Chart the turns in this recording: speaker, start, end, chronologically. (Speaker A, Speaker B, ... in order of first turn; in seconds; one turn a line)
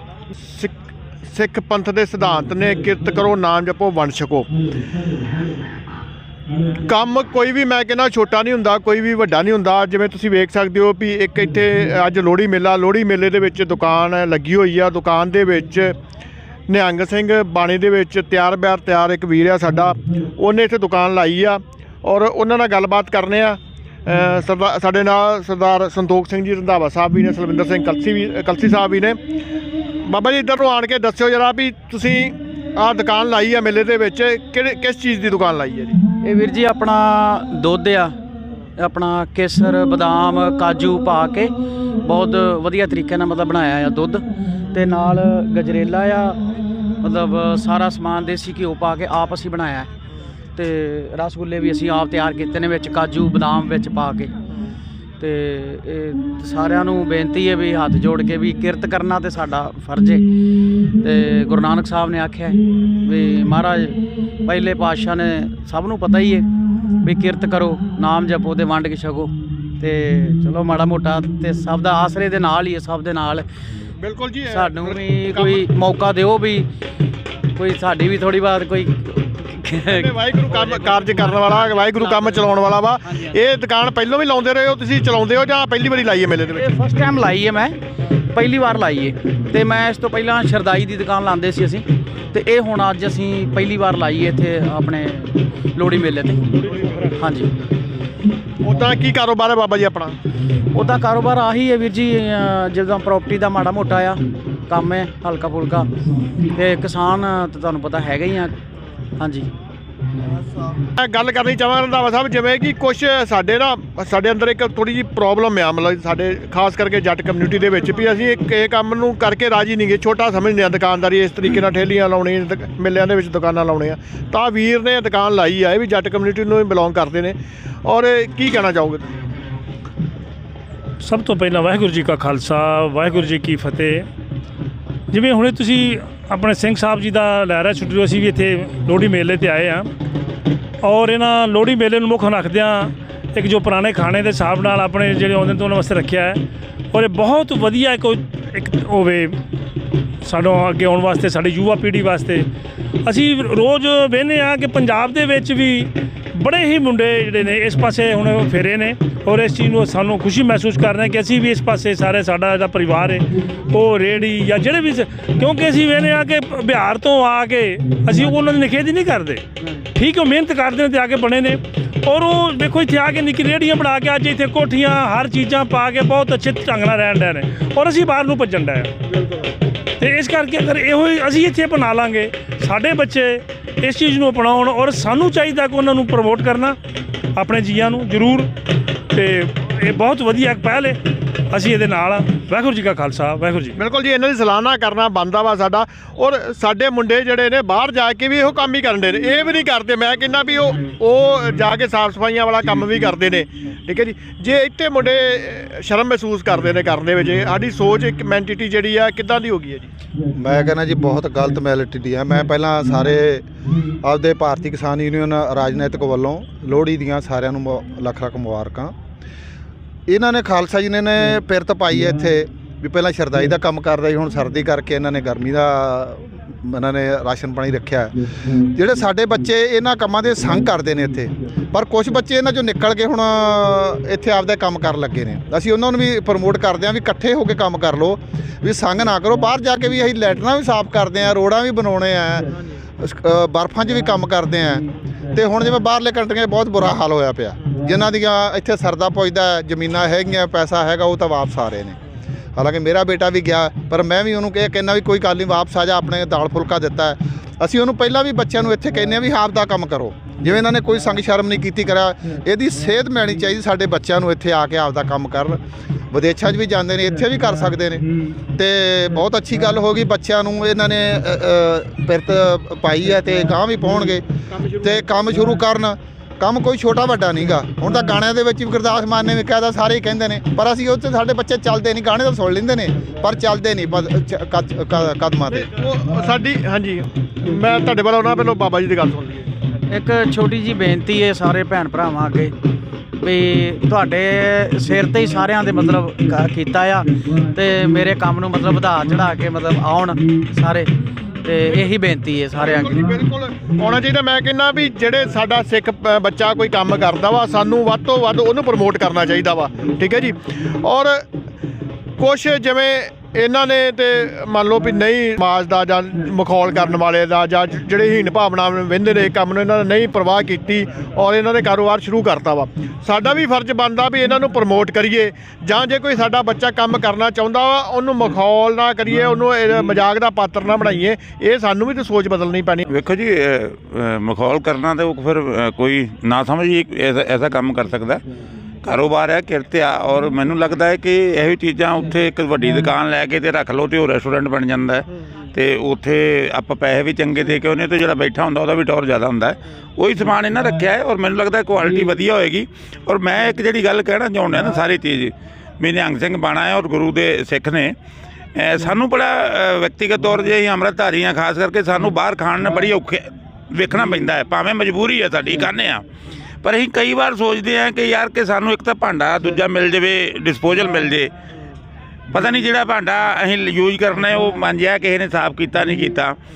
Speaker A: 0.5-0.8
Speaker A: 1.3-4.5
Speaker A: 6.7-15.9
Speaker A: 16.7-29.2
Speaker A: 30.1-36.0
Speaker B: 36.2-38.1
Speaker B: 38.8-46.4
Speaker B: 47.0-49.9
Speaker B: 50.6-54.3
Speaker B: 55.2-60.3
Speaker B: 61.0-66.5
Speaker B: 67.0-73.5
Speaker A: 74.0-75.6
Speaker B: 74.5-76.7
Speaker B: 77.6-83.3
Speaker A: 79.9-86.7
Speaker B: 86.5-87.8
Speaker B: 88.3-96.5
Speaker B: 97.2-97.5
Speaker A: 98.6-100.2
Speaker B: 100.7-105.9
Speaker B: 106.5-108.5
Speaker B: 109.2-109.5
Speaker A: 110.8-129.1
Speaker C: 131.0-134.1
Speaker C: 135.1-139.9
Speaker C: 140.8-146.4
Speaker C: 146.9-149.3
Speaker C: 150.2-152.5
Speaker C: 153.1-169.4
Speaker C: 169.9-178.9
Speaker C: 180.0-186.8
Speaker C: 187.4-188.5
Speaker C: 189.1-191.0
Speaker C: 191.5-193.8
Speaker A: 193.8-209.9
Speaker D: 210.3-213.5
Speaker D: 214.0-218.9
Speaker D: 220.1-252.0
Speaker D: 252.6-265.6
Speaker D: 266.1-274.2
Speaker A: 274.5-275.1
Speaker D: 274.8-285.7
Speaker A: 285.5-289.5
Speaker B: 289.9-292.5
Speaker B: 293.2-300.9
Speaker B: 301.4-303.0
Speaker A: 302.6-311.2
Speaker A: 312.2-332.9
Speaker E: 332.9-338.2
Speaker E: 338.8-357.9
Speaker E: 358.6-366.0
Speaker E: 366.6-371.3
Speaker E: 372.3-376.4